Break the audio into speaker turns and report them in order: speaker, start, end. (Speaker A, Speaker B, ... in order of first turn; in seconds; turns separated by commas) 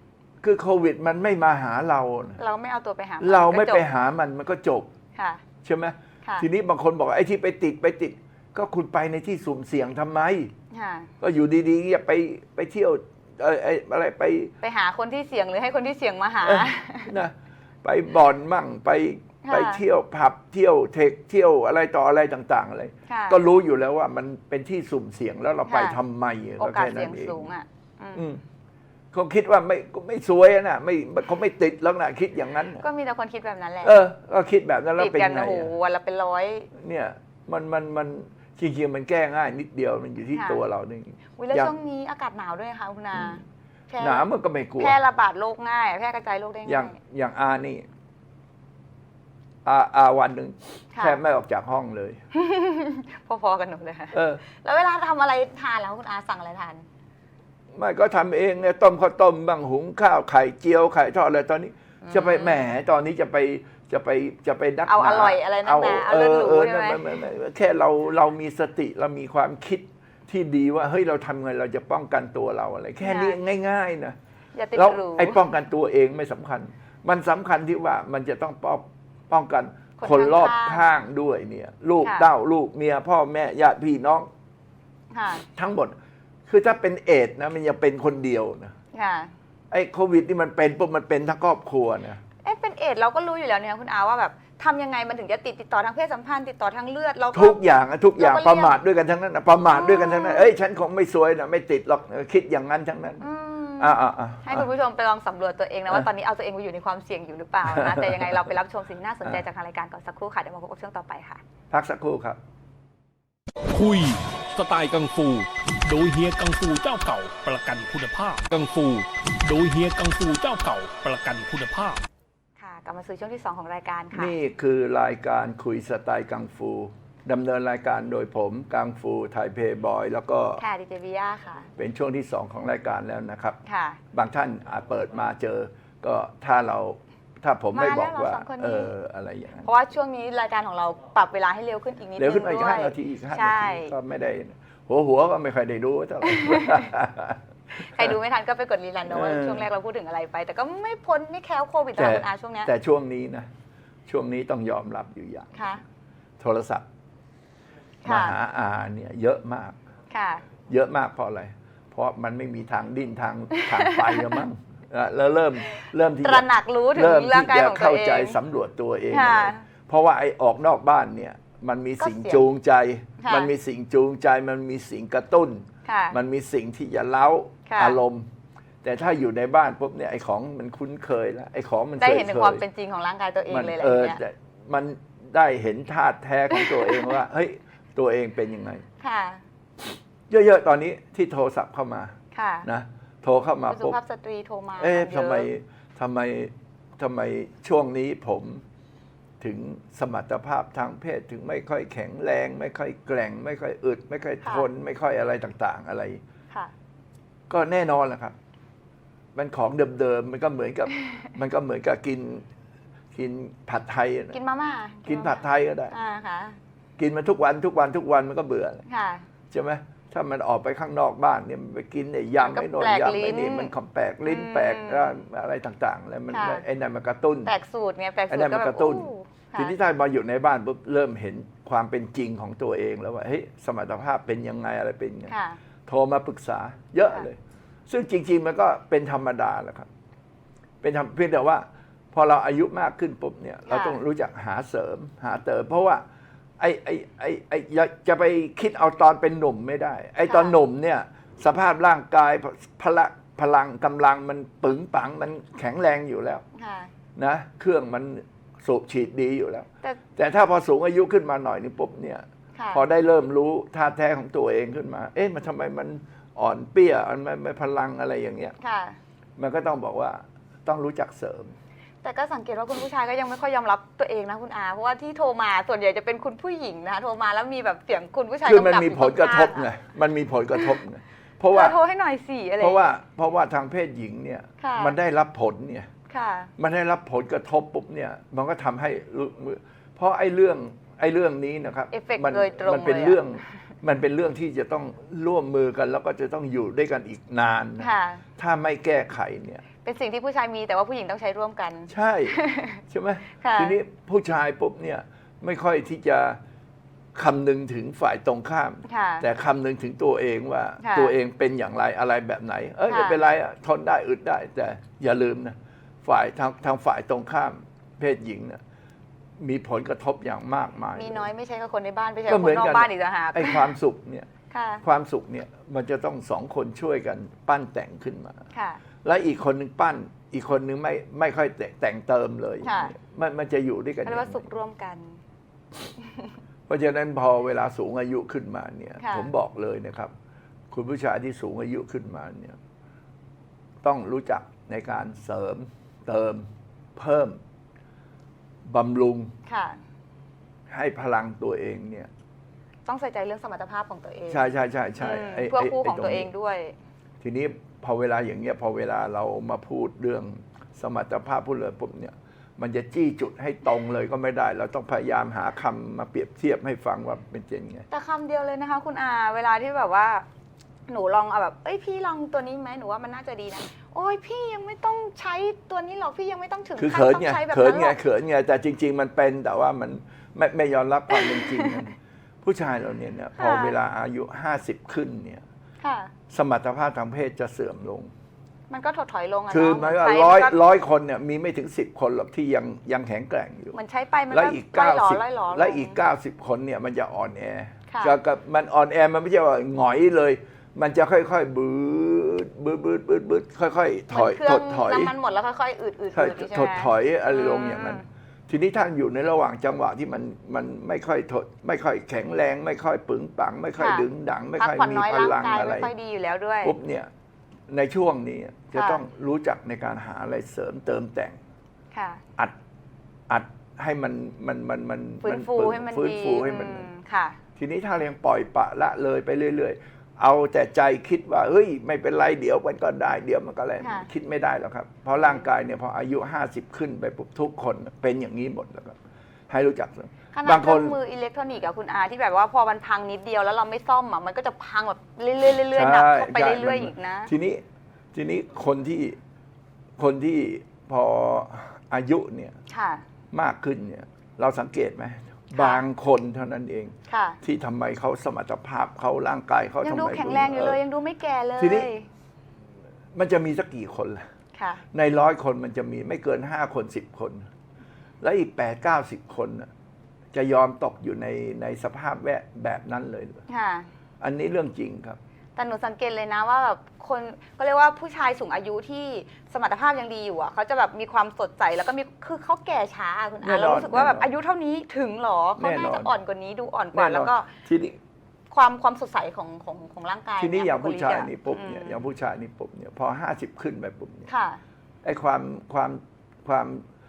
Speaker A: 0.4-2.4, Speaker B: 2.4-3.8, Speaker A: 3.2-4.9, Speaker B: 5.2-5.4, Speaker A: 5.6-10.5, Speaker B: 10.7-11.1, Speaker A: 11.2-14.5, Speaker B: 14.6-17.1, Speaker A: 16.4-27.5, Speaker B: 19.4-19.8, Speaker B: 23.1-23.4, Speaker B: 25.6-26.0, Speaker B: 26.6-28.2, Speaker A: 28.1-28.4, Speaker A: 29.1-32.8, Speaker B: 32.8-34.0, Speaker A: 33.8-35.7, Speaker B: 35.0-36.7, Speaker A: 36.7-41.7, Speaker B: 40.3-40.6, Speaker B: 41.4-44.2, Speaker A: 44.0-45.0, Speaker B: 44.8-47.0, Speaker A: 46.6-47.9, Speaker A: 49.6-52.2, Speaker B: 50.9-51.2, Speaker B: 52.3-56.8, Speaker A: 54.1-54.4, Speaker A: 57.7-74.2, Speaker B: 62.0-62.6, Speaker B: 64.8-67.0, Speaker B: 73.0-73.4, Speaker B: 74.5-75.4, Speaker A: 74.7-84.3, Speaker B: 80.0-80.8, Speaker B: 82.0-82.3, Speaker B: 85.1-85.4, Speaker A: 85.5-85.9, Speaker A: 86.5-88.7, Speaker B: 88.9-89.3, Speaker A: 89.7-92.2, Speaker B: 92.4-97.6, Speaker A: 97.3-103.3, Speaker B: 98.2-98.8, Speaker B: 99.7-100.5, Speaker B: 103.2-111.4, Speaker A: 103.8-104.7, Speaker A: 107.6-108.5, Speaker A: 111.7-112.4, Speaker C: 113.7-122.0, Speaker B: 122.6-124.3, Speaker A: 124.1-130.6, Speaker B: 130.6-131.7, Speaker A: 131.8-133.6, Speaker B: 133.6-134.0, Speaker A: 134.1-139.7, Speaker B: 137.7-138.9, Speaker B: 139.6-143.9, Speaker A: 142.2-147.4, Speaker B: 146.2-146.9, Speaker B: 147.7-152.7, Speaker A: 149.1-149.7, Speaker A: 151.9-153.5, Speaker A: 154.1-155.7, Speaker B: 155.6-155.8, Speaker A: 156.4-156.8, Speaker B: 158.0-158.4, Speaker A: 158.0-159.8, Speaker B: 160.1-160.4, Speaker A: 160.7-178.3, Speaker B: 163.6-164.4, Speaker B: 165.8-168.4, Speaker B: 169.1-169.7, Speaker B: 172.0-172.5, Speaker B: 173.2-173.5, Speaker B: 175.8-176.2, Speaker B: 177.7-178.0, Speaker A: 178.8-182.6, Speaker B: 182.0-184.2, Speaker A: 183.5-188.8, Speaker B: 186.5-187.2, Speaker B: 189.0-189.4, Speaker A: 190.3-194.0, Speaker B: 192.3-192.7, Speaker B: 193.7-195.5, Speaker A: 194.8-198.6, Speaker A: 199.4-206.2, Speaker A: 207.5-208.3, Speaker A: 209.3-212.4, Speaker A: 213.1-214.4, Speaker B: 214.3-216.6, Speaker A: 215.1-215.9, Speaker A: 217.0-218.8, Speaker B: 218.9-219.2, Speaker A: 219.5-227.5, Speaker B: 222.4-223.7, Speaker B: 224.2-225.2, Speaker B: 226.3-226.6, Speaker B: 227.4-229.7, Speaker A: 228.3-235.3, Speaker B: 235.3-235.6, Speaker A: 235.8-237.4, Speaker A: 237.9-239.9, Speaker A: 240.8-246.0, Speaker B: 243.7-244.0, Speaker A: 246.6-256.4, Speaker B: 250.2-250.6, Speaker B: 256.5-256.9, Speaker A: 257.1-268.5, Speaker B: 262.6-262.8, Speaker B: 268.6-269.0, Speaker A: 269.4-271.5, Speaker B: 272.0-279.7, Speaker A: 278.4-281.8, Speaker B: 281.5-282.9, Speaker A: 282.6-285.9, Speaker B: 284.6-284.9, Speaker B: 286.1-286.5, Speaker A: 286.6-299.6, Speaker B: 291.9-293.4, Speaker B: 297.8-298.2, Speaker B: 299.8-302.8, Speaker A: 301.9-302.4, Speaker A: 302.9-306.4, Speaker B: 303.4-303.8, Speaker A: 307.1-318.6, Speaker B: 308.8-309.2, Speaker B: 310.8-311.1, Speaker B: 312.9-313.2, Speaker A: 319.4-321.3, Speaker B: 320.9-323.7, Speaker A: 322.3-324.3, Speaker B: 324.5-324.8, Speaker A: 324.8-328.4, Speaker B: 328.5-328.8, Speaker A: 329.0-334.4, Speaker B: 332.6-332.9, Speaker B: 334.0-335.2, Speaker A: 336.7-340.1, Speaker B: 339.0-339.3, Speaker A: 340.7-342.6, Speaker A: 343.8-347.4, Speaker A: 348.7-349.3, Speaker B: 349.5-349.8, Speaker A: 350.7-352.1, Speaker B: 352.9-356.8, Speaker A: 354.3-356.3, Speaker A: 357.2-367.9, Speaker B: 367.9-370.2, Speaker B: 370.9-378.0, Speaker A: 376.8-385.4, Speaker B: 381.1-381.9, Speaker B: 383.4-383.8, Speaker B: 385.8-386.1, Speaker A: 386.3-388.1, Speaker B: 388.7-390.6, Speaker A: 389.5-393.8, Speaker B: 393.7-396.0, Speaker A: 394.3-405.1, Speaker B: 397.9-398.2, Speaker B: 404.1-408.0, Speaker A: 406.1-415.9, Speaker B: 413.8-414.1, Speaker B: 414.6-416.8, Speaker A: 416.6-417.1, Speaker A: 417.7-421.4, Speaker B: 418.7-419.0, Speaker B: 421.9-422.2, Speaker A: 423.3-426.9, Speaker B: 425.2-427.4, Speaker A: 427.6-439.0, Speaker B: 433.8-434.1, Speaker B: 435.2-435.5, Speaker A: 439.5-441.0, Speaker B: 440.3-447.3, Speaker A: 445.7-447.6, Speaker A: 448.1-449.2, Speaker A: 450.0-452.6, Speaker B: 452.7-453.0, Speaker A: 453.3-460.8, Speaker B: 455.5-455.8, Speaker B: 457.1-457.4, Speaker B: 459.8-462.1, Speaker A: 461.6-461.9, Speaker A: 463.1-464.2, Speaker B: 464.5-464.8, Speaker A: 464.9-467.5, Speaker A: 468.2-469.7, Speaker A: 470.3-473.4, Speaker B: 473.5-473.9, Speaker A: 474.2-475.2, Speaker B: 475.6-487.5, Speaker A: 483.4-484.3, Speaker A: 485.6-486.1, Speaker A: 486.9-488.0, Speaker B: 488.5-492.0, Speaker A: 490.4-494.3, Speaker B: 494.3-494.6, Speaker A: 495.0-496.8